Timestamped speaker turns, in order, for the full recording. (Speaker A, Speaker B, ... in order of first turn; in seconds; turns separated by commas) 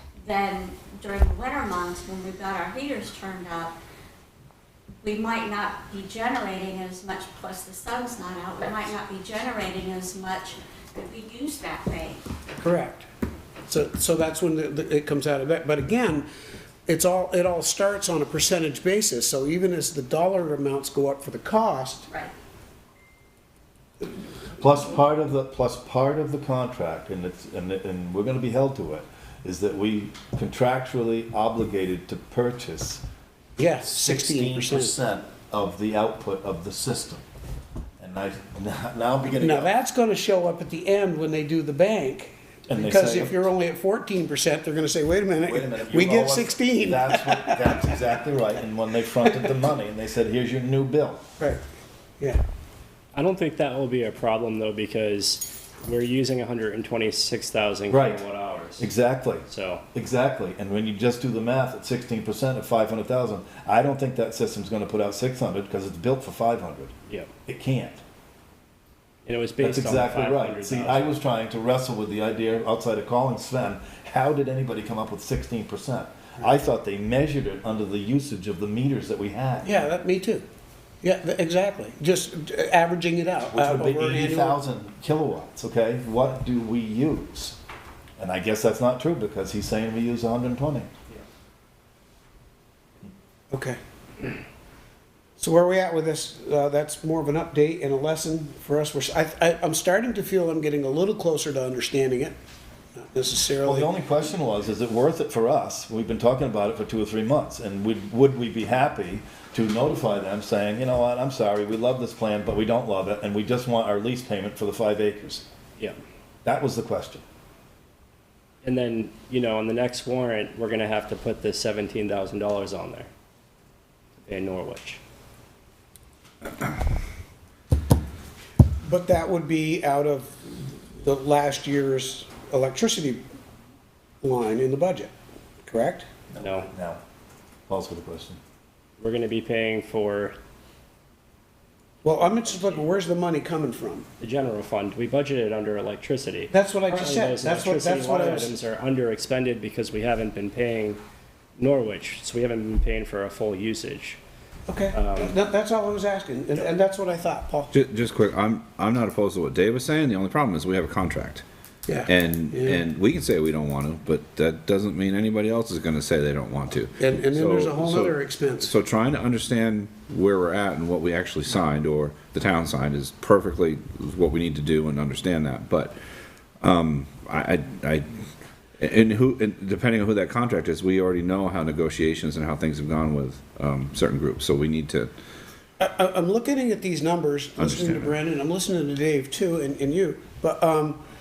Speaker A: 0.2-3.7, Speaker A: 5.0-12.2, Speaker B: 12.6-13.1, Speaker B: 13.7-16.3, Speaker B: 16.9-22.1, Speaker C: 24.6-33.0, Speaker B: 33.6-34.9, Speaker C: 33.8-37.2, Speaker C: 38.0-39.7, Speaker B: 39.4-47.9, Speaker C: 42.7-43.4, Speaker C: 45.4-51.2, Speaker D: 53.1-58.9, Speaker C: 57.9-58.2, Speaker C: 58.8-66.9, Speaker D: 59.4-59.8, Speaker C: 67.5-68.0, Speaker D: 69.2-71.1, Speaker C: 69.6-79.7, Speaker B: 79.6-80.5, Speaker B: 81.0-84.6, Speaker C: 83.5-87.6, Speaker C: 88.2-90.9, Speaker B: 93.5-93.8, Speaker B: 95.4-102.3, Speaker B: 102.9-103.9, Speaker C: 103.6-115.4, Speaker C: 116.4-117.2, Speaker D: 118.6-123.1, Speaker D: 124.2-125.0, Speaker B: 128.8-133.2, Speaker B: 134.2-135.1, Speaker B: 135.6-136.1, Speaker C: 136.3-137.0, Speaker D: 136.4-136.7, Speaker C: 137.7-138.4, Speaker D: 139.0-140.4, Speaker B: 142.0-144.1, Speaker D: 142.5-142.8, Speaker D: 144.2-151.0, Speaker B: 146.5-148.5, Speaker D: 151.6-154.2, Speaker B: 154.7-157.7, Speaker D: 154.9-155.3, Speaker E: 157.7-161.4, Speaker B: 161.9-162.8, Speaker E: 162.1-175.9, Speaker B: 167.0-168.7, Speaker E: 176.6-178.1, Speaker E: 178.8-185.1, Speaker B: 185.8-191.0, Speaker E: 187.6-188.1